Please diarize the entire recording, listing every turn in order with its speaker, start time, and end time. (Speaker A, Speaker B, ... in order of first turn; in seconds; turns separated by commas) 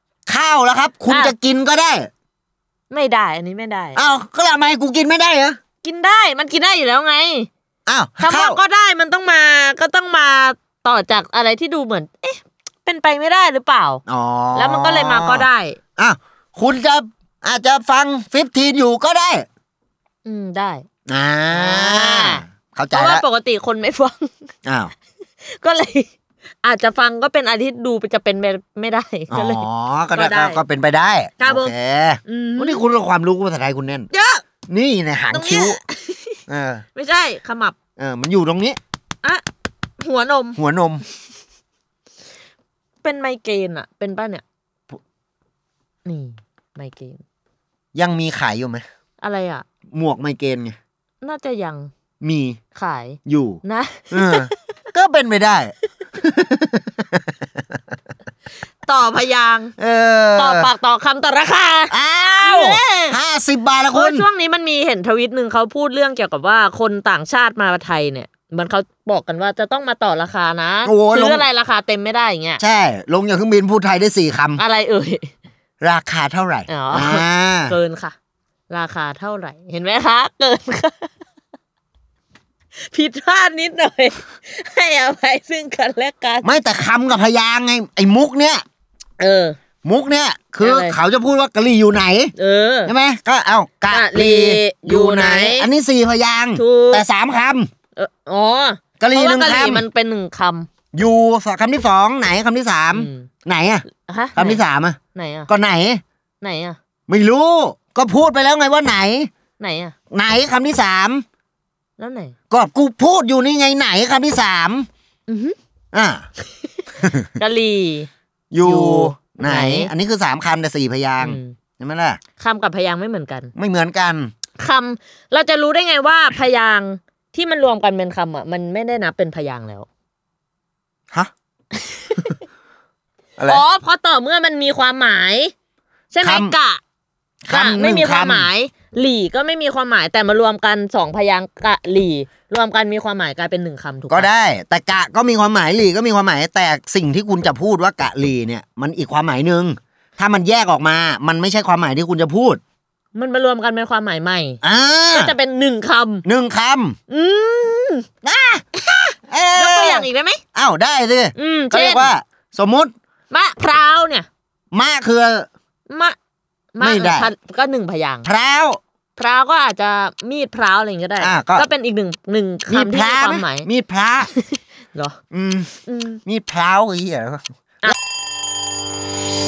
Speaker A: 0.3-2.1, Speaker B: 1.1-1.3, Speaker B: 2.9-4.0, Speaker A: 4.0-5.6, Speaker B: 5.8-7.5, Speaker A: 7.9-8.6, Speaker B: 8.2-14.0, Speaker A: 14.1-19.4, Speaker B: 14.5-15.8, Speaker B: 20.2-20.9, Speaker A: 21.1-23.2, Speaker B: 21.5-24.5, Speaker A: 24.6-24.9, Speaker B: 25.4-26.1, Speaker B: 26.6-30.6, Speaker A: 29.3-34.1, Speaker B: 31.4-31.7, Speaker B: 32.3-32.8, Speaker B: 34.1-34.4, Speaker A: 34.7-35.8, Speaker B: 35.3-36.4, Speaker A: 36.5-36.8, Speaker B: 36.9-37.8, Speaker A: 38.0-38.8, Speaker B: 40.0-40.6, Speaker A: 40.5-41.0, Speaker B: 43.0-44.4, Speaker B: 46.0-47.2, Speaker A: 47.9-48.8, Speaker B: 49.2-49.6, Speaker A: 49.9-50.8, Speaker B: 51.2-51.9, Speaker A: 52.2-52.6, Speaker B: 52.7-54.5, Speaker A: 53.2-57.3, Speaker B: 58.8-59.7, Speaker A: 59.8-60.7, Speaker B: 60.4-63.2, Speaker A: 61.9-64.3, Speaker B: 63.9-72.6, Speaker A: 70.8-71.5, Speaker A: 72.6-74.6, Speaker B: 74.6-75.3, Speaker A: 75.8-77.8, Speaker B: 76.7-78.1, Speaker B: 78.7-81.1, Speaker B: 82.8-86.5, Speaker A: 86.4-88.6, Speaker B: 89.2-89.6, Speaker A: 89.8-92.3, Speaker B: 90.6-91.0, Speaker B: 92.4-92.9, Speaker A: 92.9-97.7, Speaker B: 93.9-95.7, Speaker B: 96.5-97.0, Speaker B: 98.0-100.7, Speaker A: 99.0-99.8, Speaker A: 100.9-105.0, Speaker B: 102.9-103.3, Speaker B: 104.0-104.6, Speaker B: 105.1-105.5, Speaker A: 105.5-106.0, Speaker B: 106.4-106.8, Speaker A: 107.1-109.3, Speaker B: 109.6-109.9, Speaker A: 110.1-111.2, Speaker B: 112.0-112.3, Speaker A: 112.5-114.9, Speaker B: 115.3-115.5, Speaker A: 115.9-116.2, Speaker A: 117.0-117.3, Speaker B: 117.3-118.1, Speaker A: 118.5-122.2, Speaker B: 118.6-119.9, Speaker B: 121.2-121.5, Speaker B: 122.4-123.5, Speaker A: 123.5-124.3, Speaker B: 124.6-129.9, Speaker B: 131.9-132.4, Speaker A: 133.4-133.6, Speaker B: 133.4-135.5, Speaker B: 136.1-136.8, Speaker A: 136.2-136.6, Speaker A: 137.4-138.5, Speaker B: 137.5-144.3, Speaker A: 144.1-152.6, Speaker B: 153.1-154.6, Speaker A: 154.6-155.3, Speaker B: 155.1-156.2, Speaker A: 156.2-157.0, Speaker B: 157.1-158.1, Speaker A: 158.2-158.7, Speaker B: 158.9-160.4, Speaker A: 159.2-162.9, Speaker B: 161.3-162.1, Speaker B: 163.3-164.3, Speaker A: 164.7-165.5, Speaker B: 165.9-166.2, Speaker B: 166.8-168.3, Speaker A: 166.8-167.3, Speaker A: 168.2-168.8, Speaker B: 169.2-173.7, Speaker A: 171.2-171.7, Speaker A: 172.7-174.3, Speaker B: 174.2-175.2, Speaker A: 175.3-177.9, Speaker B: 175.9-176.2